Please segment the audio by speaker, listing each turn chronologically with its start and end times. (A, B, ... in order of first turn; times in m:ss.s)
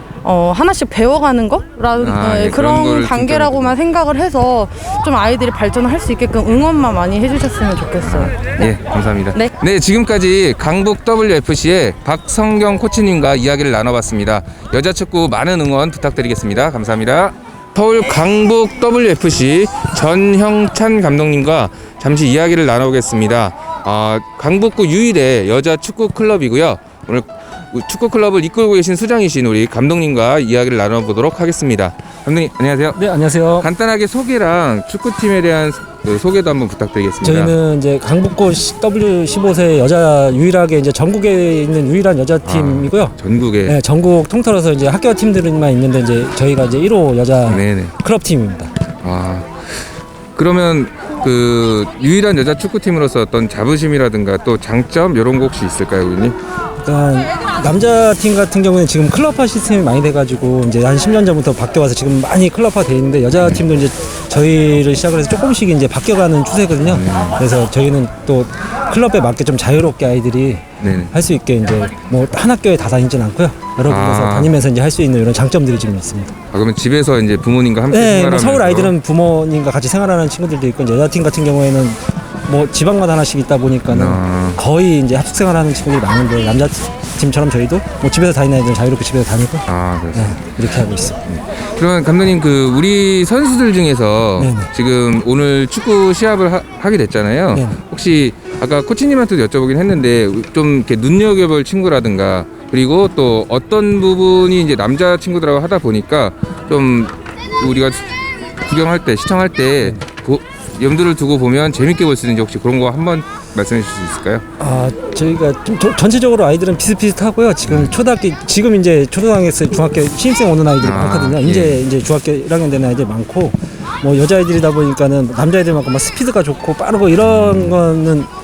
0:00.2-0:08.6 A
0:02.0-0:03.8 B
0:08.0-0:33.0 B
0:33.0-0:33.7 C
0:33.6-0:37.6 B
0:37.2-0:43.2 C
0:42.4-0:43.8 B
0:43.7-0:48.7 C
0:47.5-0:47.9 B
0:49.0-0:56.4 B
0:56.8-1:16.3 C
1:06.8-1:07.4 B
1:10.8-1:11.1 B
1:13.9-1:14.6 B
1:16.5-1:19.0 B
1:17.9-1:31.2 C
1:23.9-1:24.6 B
1:29.7-1:30.5 B
1:31.3-1:54.4 B
1:34.4-1:34.7 C
1:37.5-1:37.8 C
1:54.6-2:08.3 C
1:57.7-1:58.0 B
2:00.8-2:01.8 B
2:07.2-2:07.8 B